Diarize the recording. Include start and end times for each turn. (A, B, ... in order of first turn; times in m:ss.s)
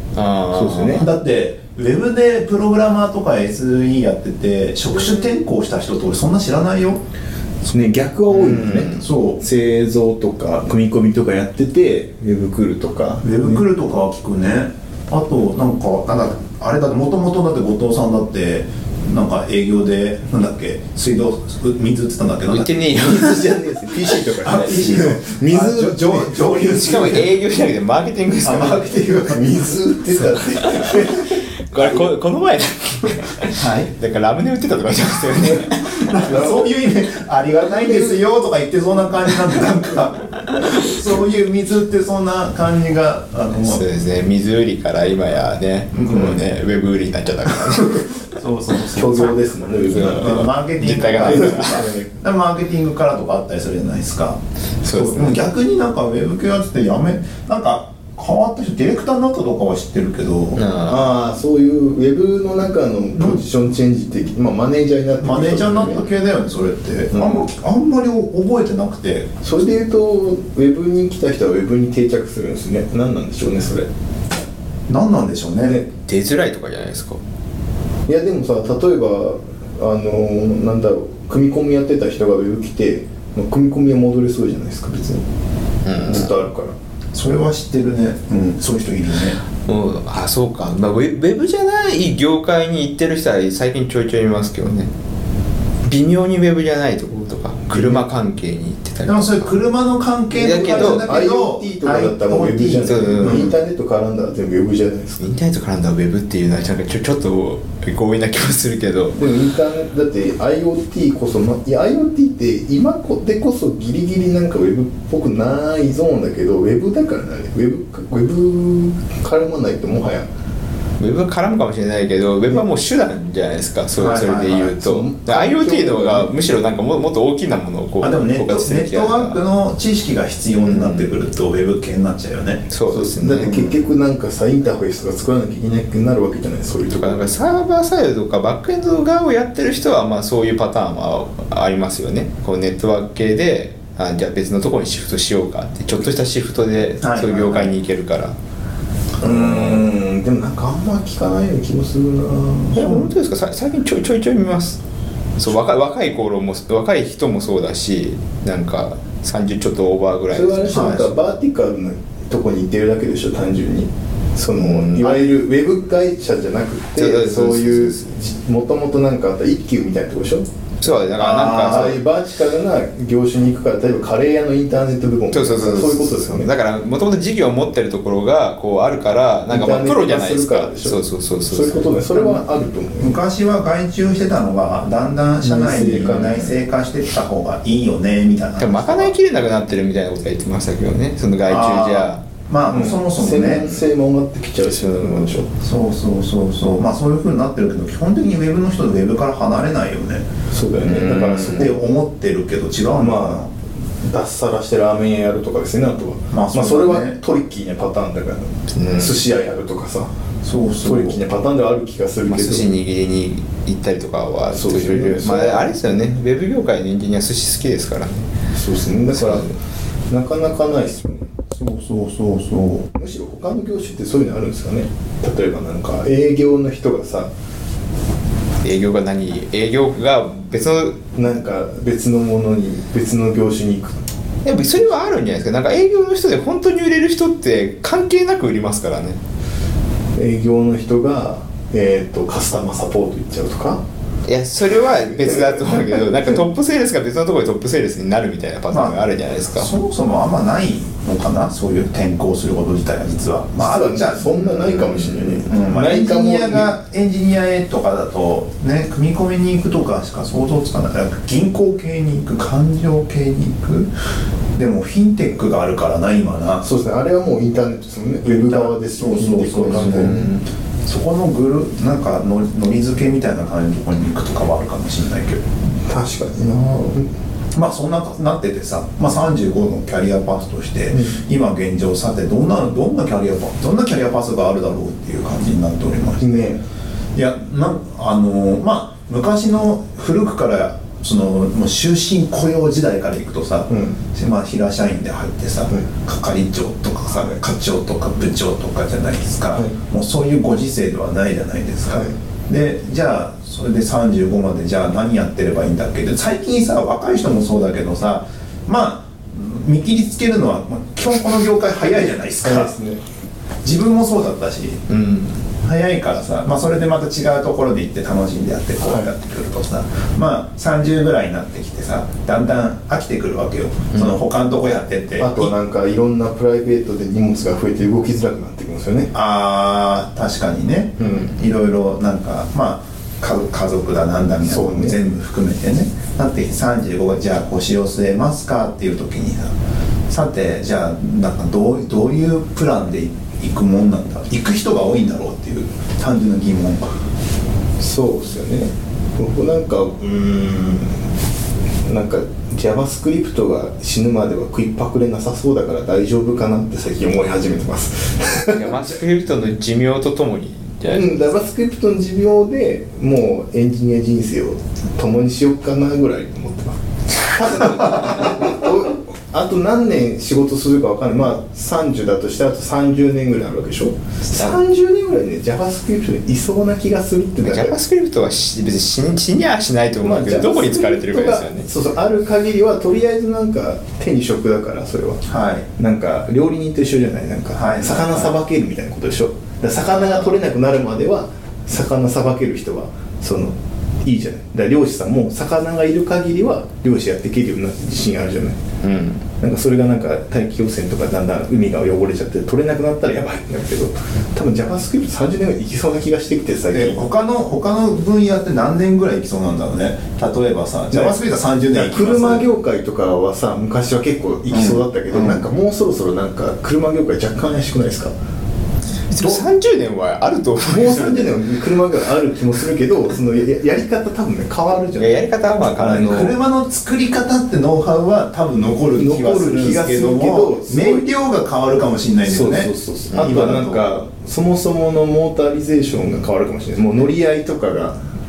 0:00.2-0:01.0 A
0:00.5-0:01.1 B
0:00.9-0:07.0 C
0:07.7-0:13.6 B
0:08.3-0:09.0 A
0:09.0-0:09.4 C
0:13.2-0:22.9 C
0:22.5-0:24.5 A
0:22.9-0:26.6 B
0:24.4-0:27.3 C
0:26.5-0:28.9 A
0:28.4-0:30.3 C
0:29.3-0:32.1 B
0:30.6-0:36.4 A
0:33.6-0:33.9 C
0:36.0-0:43.8 C
0:36.3-0:36.7 B
0:37.8-0:38.2 B
0:43.6-0:48.4 A
0:46.0-0:46.4 C
0:48.4-0:49.4 C
0:48.9-0:50.5 B
0:49.9-0:51.9 A
0:49.9-0:54.4 C
0:51.2-0:52.1 B
0:54.8-0:55.4 A
0:54.9-1:00.6 C
1:00.6-1:01.1 A
1:00.9-1:06.1 B
1:05.2-1:09.4 C
1:07.1-1:07.4 B
1:09.4-1:13.9 B
1:14.9-1:15.8 C
1:15.6-1:15.9 B
1:15.9-1:17.2 A
1:18.1-1:25.2 B
1:25.8-1:26.4 A
1:26.0-1:26.8 B
1:27.1-1:29.4 C
1:29.7-1:34.9 A
1:35.9-1:39.5 A
1:37.7-1:38.0 B
1:39.1-1:43.5 C
1:40.3-1:45.2 B
1:40.4-1:41.1 A
1:42.8-1:43.5 A
1:45.2-1:49.2 A
1:49.2-2:00.3 B
2:01.0-2:09.4 A
2:04.0-2:04.8 C
2:04.7-2:06.3 B
2:08.0-2:12.7 C
2:10.6-2:11.2 A
2:12.7-2:13.7 A
2:12.9-2:17.3 B
2:16.9-2:28.4 A
2:27.0-2:27.7 C
2:29.2-2:33.1 B
2:29.2-2:29.9 A
2:32.7-2:34.8 A
2:35.4-2:41.1 A
2:40.3-2:50.4 B
2:40.7-2:41.1 C
2:44.5-2:45.3 A
2:47.0-2:48.1 A
2:50.8-2:52.0 A
2:51.2-2:52.0 C
2:51.2-2:56.5 B
2:55.3-3:02.0 A
2:59.5-3:03.2 B
3:02.1-3:02.4 C
3:03.0-3:09.1 C
3:05.4-3:06.5 B
3:06.0-3:06.4 A
3:08.6-3:12.2 A
3:11.5-3:13.7 C
3:12.7-3:15.5 B
3:14.7-3:15.4 A
3:15.6-3:20.3 C
3:20.5-3:21.8 B
3:20.8-3:21.7 A
3:21.5-3:23.5 C
3:23.0-3:23.4 B
3:24.0-3:30.1 B
3:26.3-3:27.2 C
3:28.8-3:29.2 A
3:30.4-3:31.2 C
3:30.8-3:32.7 B
3:32.3-3:38.3 A
3:34.5-3:35.7 B
3:38.5-3:39.5 B
3:39.1-3:39.5 A
3:40.1-3:41.3 B
3:41.5-3:42.9 C
3:42.9-3:47.3 B
3:48.6-3:51.1 A
3:51.2-3:54.0 B
3:54.4-3:59.2 A
4:00.2-4:03.8 B
4:04.3-4:09.7 A
4:05.2-4:06.0 B
4:08.7-4:09.0 C
4:09.5-4:14.5 C
4:13.6-4:16.7 B
4:14.5-4:15.4 A
4:15.4-4:23.9 C
4:24.6-4:26.7 C
4:26.6-4:30.2 B
4:28.2-4:30.3 C
4:29.7-4:30.4 A
4:30.9-4:35.4 C
4:35.8-4:37.1 B
4:37.6-4:46.4 C
4:40.9-4:41.2 B
4:46.2-4:46.6 B
4:47.2-5:12.8 C
4:53.7-4:54.0 B
5:12.4-5:13.0 B
5:13.6-5:14.8 C
5:14.9-5:15.4 A
5:15.6-5:25.5 C
5:18.8-5:19.1 B
5:25.2-5:29.1 B
5:29.1-5:39.5 C
5:31.0-5:31.3 B
5:34.4-5:35.0 B
5:40.1-5:46.9 C
5:47.8-5:51.0 B
5:51.8-5:59.0 B
5:58.5-6:01.2 A
6:00.9-6:17.8 B
6:07.9-6:08.3 A
6:14.3-6:14.6 A
6:17.4-6:21.7 A
6:20.0-6:25.2 B
6:25.3-6:25.7 C
6:25.8-6:38.6 B
6:27.5-6:28.4 C
6:30.0-6:30.3 A
6:38.8-6:39.3 A
6:39.4-6:47.1 B
6:46.7-6:52.5 C
6:50.9-6:51.2 B
6:51.7-6:58.1 B
6:54.5-6:55.4 C
6:59.1-7:01.4 A
7:00.6-7:05.3 B
7:05.0-7:06.4 A
7:05.8-7:06.4 B
7:05.8-7:13.9 C
7:09.0-7:11.1 B
7:12.2-7:18.0 B
7:13.1-7:13.5 A